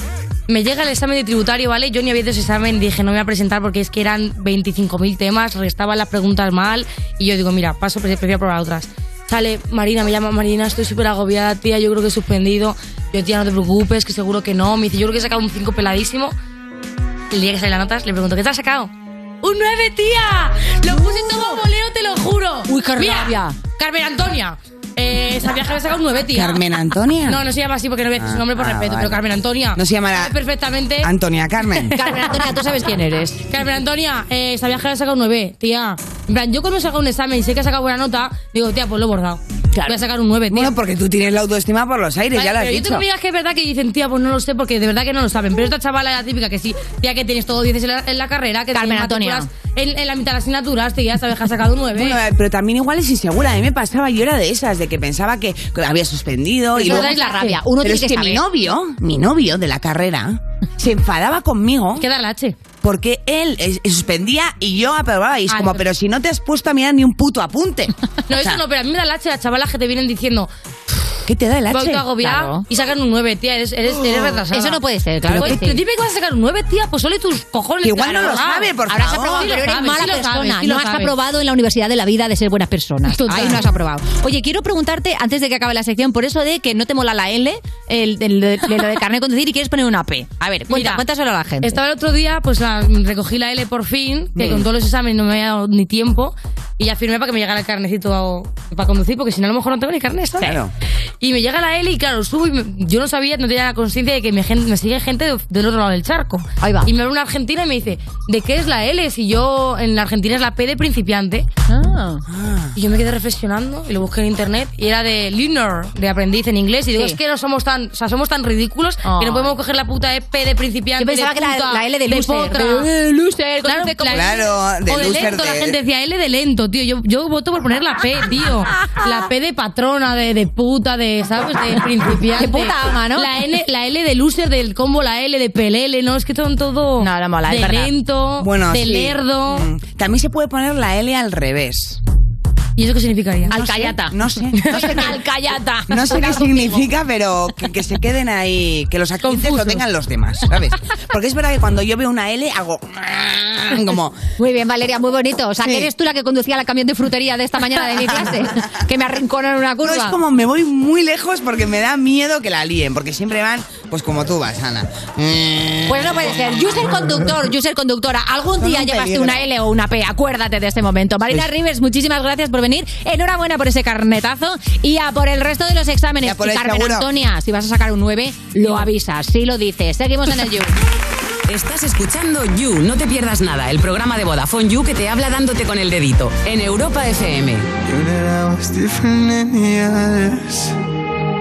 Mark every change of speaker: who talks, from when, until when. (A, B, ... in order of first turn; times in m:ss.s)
0:00.5-0:16.3 A
0:17.3-0:26.6 A
0:20.9-0:21.6 B
0:22.7-0:23.6 B
0:26.3-0:27.4 C
0:27.2-0:31.1 A
0:28.2-0:29.2 C
0:29.7-0:30.3 C
0:31.0-0:31.9 C
0:31.9-0:33.4 B
0:33.5-0:40.7 A
0:40.5-0:43.0 C
0:42.3-0:52.2 A
0:48.7-0:49.5 B
0:51.9-0:57.2 C
0:56.8-0:57.6 A
0:56.8-0:58.4 B
0:57.8-1:02.0 C
1:02.0-1:02.6 A
1:02.8-1:08.6 C
1:05.5-1:05.8 A
1:08.3-1:10.5 A
1:11.2-1:12.0 C
1:11.7-1:14.8 A
1:12.2-1:12.6 B
1:14.5-1:15.8 B
1:15.3-1:15.6 C
1:15.3-1:18.7 A
1:17.8-1:19.7 C
1:18.9-1:31.8 B
1:19.3-1:21.1 A
1:23.1-1:23.6 A
1:30.7-1:31.0 A
1:31.6-1:40.5 A
1:34.4-1:34.7 C
1:40.4-1:40.7 C
1:41.2-1:51.5 A
1:46.6-1:46.9 B
1:51.7-1:52.2 B
1:52.3-1:52.7 C
1:52.8-2:02.9 A
1:59.0-1:59.5 B
2:01.0-2:04.3 B
2:03.6-2:19.6 A
2:04.1-2:05.8 C
2:12.3-2:13.3 B
2:17.0-2:17.9 B
2:18.4-2:22.0 C
2:22.8-2:23.6 A
2:23.5-2:25.2 C
2:23.5-2:26.9 B
2:24.6-2:25.0 A
2:25.9-2:34.2 C
2:29.2-2:29.8 A
2:34.4-2:40.2 B
2:35.6-2:35.9 C
2:37.8-2:38.4 C
2:39.8-2:46.5 C
2:45.9-3:00.7 B
2:48.6-2:49.4 C
2:56.2-2:57.1 C
3:01.5-3:07.7 D
3:07.8-3:10.7 E